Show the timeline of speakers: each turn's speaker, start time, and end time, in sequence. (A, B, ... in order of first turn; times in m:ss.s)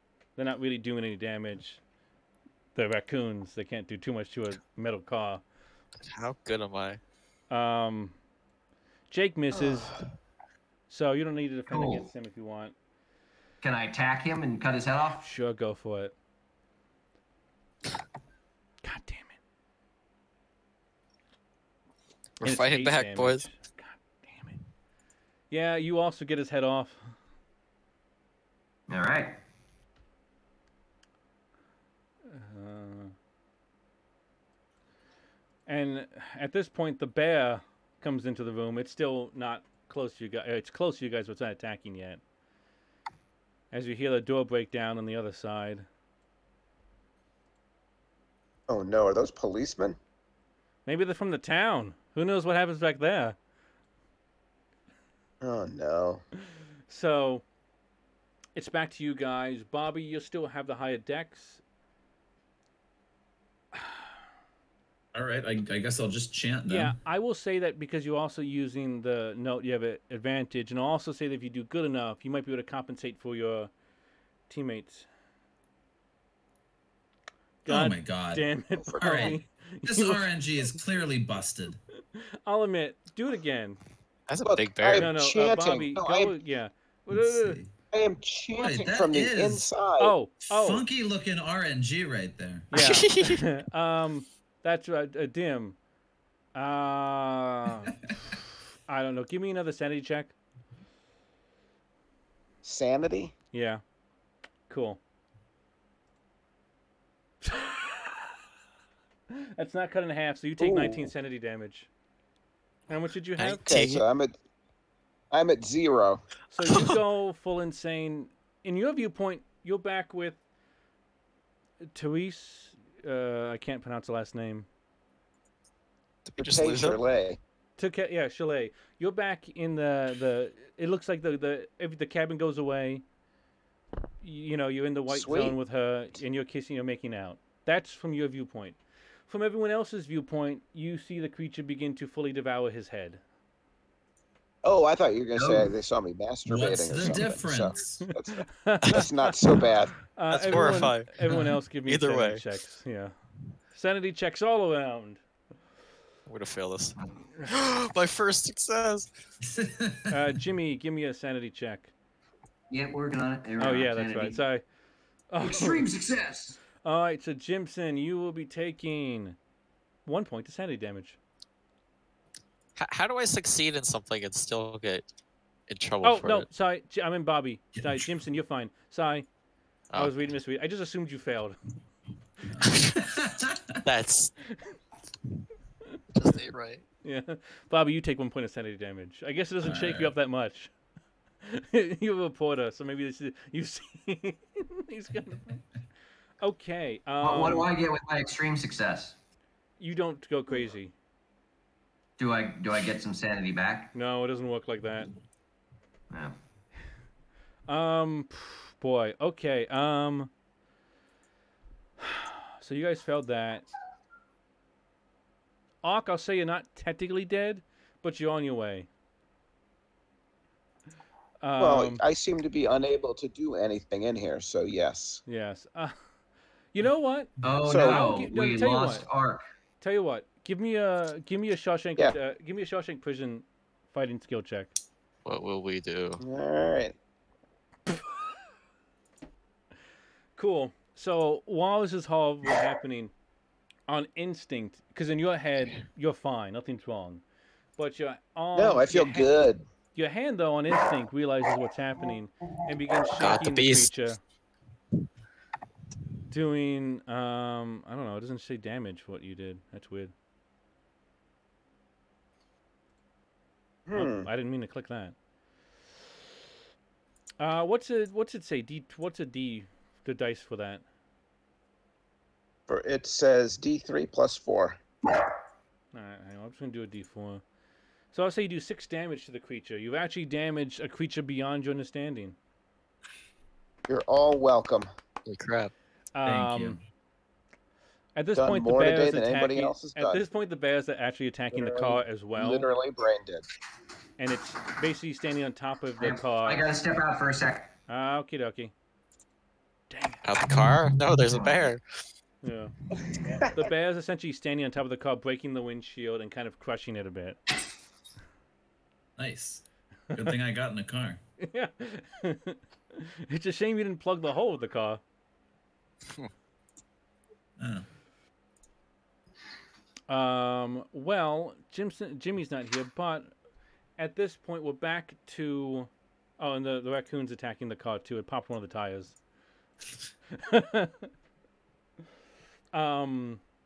0:00.4-0:01.8 A
0:02.8-0:05.4 A
0:06.1-0:07.0 B
0:07.5-0:08.2 A
0:09.1-0:10.0 A
0:10.9-0:12.7 A
0:11.7-0:12.1 C
0:13.6-0:15.3 C
0:15.2-0:16.1 A
0:18.8-0:19.4 A
0:22.4-0:23.5 B
0:22.4-0:24.6 A
0:25.5-0:27.2 A
0:28.9-0:29.4 C
0:32.3-0:33.1 A
0:35.7-0:42.2 A
0:43.7-0:45.9 A
0:48.7-0:50.0 D
0:50.9-0:53.4 A
0:55.4-0:56.2 D
0:56.9-0:57.4 A
0:58.6-1:01.6 A
1:05.1-1:07.0 E
1:06.7-1:13.7 A
1:14.5-1:15.1 A
1:17.6-1:20.3 A
1:17.7-1:18.5 E
1:18.8-1:19.4 D
1:19.0-1:21.8 E
1:22.1-1:23.8 A
1:24.3-1:25.1 B
1:24.4-1:26.4 D
1:24.9-1:27.6 A
1:27.1-1:27.7 E
1:27.9-1:30.2 D
1:28.5-1:29.7 E
1:30.0-1:30.8 A
1:30.5-1:32.7 E
1:32.7-1:35.8 A
1:32.7-1:33.5 B
1:36.6-1:38.0 A
1:38.9-1:40.3 A
1:42.6-1:43.3 D
1:43.5-1:43.8 A
1:44.7-1:45.0 A
1:47.4-1:48.3 A
1:49.3-1:51.9 A
1:50.6-1:51.1 D
1:52.9-1:53.6 A
1:53.4-1:54.0 B
1:53.7-1:54.4 D
1:55.3-1:56.2 D
1:56.5-2:00.4 A
1:56.7-1:57.0 B
2:01.9-2:04.7 A
2:06.2-2:07.0 B
2:06.4-2:07.4 D
2:07.8-2:13.0 A
2:14.2-2:23.2 A
2:15.1-2:15.6 D
2:24.6-2:30.0 D
2:25.4-2:25.7 C
2:26.5-2:28.0 E
2:28.0-2:33.1 A
2:30.3-2:31.3 B
2:31.9-2:32.4 B
2:33.7-2:35.2 A
2:36.3-2:39.1 B
2:39.4-2:40.2 E
2:40.1-2:41.9 A
2:42.7-2:44.4 C
2:43.6-2:44.6 A
2:45.3-2:45.9 A
2:45.4-2:46.6 C
2:46.8-2:49.4 A
2:50.1-2:51.2 A
2:52.8-2:55.1 B
2:55.7-2:56.5 B
2:56.0-2:59.3 A
2:57.8-2:58.0 E
3:00.0-3:01.6 A
3:02.5-3:03.8 E
3:02.7-3:03.0 B
3:03.8-3:04.3 B
3:06.2-3:06.8 B
3:07.0-3:10.7 A
3:09.6-3:10.1 E
3:11.4-3:15.6 A
3:16.4-3:17.7 A
3:17.2-3:19.2 C
3:19.8-3:20.9 A
3:22.2-3:23.9 C
3:23.9-3:25.1 A
3:26.1-3:26.4 C
3:27.7-3:30.3 A
3:32.0-3:33.7 A
3:35.8-3:38.9 A
3:41.4-3:42.0 A
3:41.6-3:45.2 D
3:45.3-3:46.0 A
3:46.7-3:49.1 A
3:47.4-3:49.4 C
3:47.6-3:48.1 D
3:49.8-3:54.7 A
3:55.2-3:56.2 B
3:56.2-3:57.0 D
4:00.4-4:03.1 A
4:03.9-4:07.2 A
4:07.8-4:09.3 A
4:08.6-4:09.6 D
4:10.0-4:14.2 A
4:13.2-4:13.9 B
4:16.3-4:20.1 A
4:23.9-4:24.3 D
4:23.9-4:25.2 A
4:27.4-4:30.8 A
4:32.7-4:34.8 D
4:35.9-4:37.4 A
4:38.1-4:42.4 A
4:43.9-4:44.9 D
4:45.3-4:45.7 B
4:46.2-4:46.8 A
4:46.2-4:46.8 E
4:48.2-4:52.7 A
4:48.3-4:50.2 D
4:51.5-4:53.5 D
4:54.2-4:56.7 A
4:56.0-4:57.7 C
4:57.9-4:58.7 A
4:59.9-5:00.2 A
5:00.2-5:01.8 B
5:02.4-5:02.7 A
5:03.4-5:07.4 A
5:09.2-5:11.2 E
5:11.4-5:15.0 A
5:17.6-5:17.9 E
5:20.1-5:23.3 A
5:24.0-5:29.2 A
5:30.3-5:31.1 A
5:32.7-5:33.4 A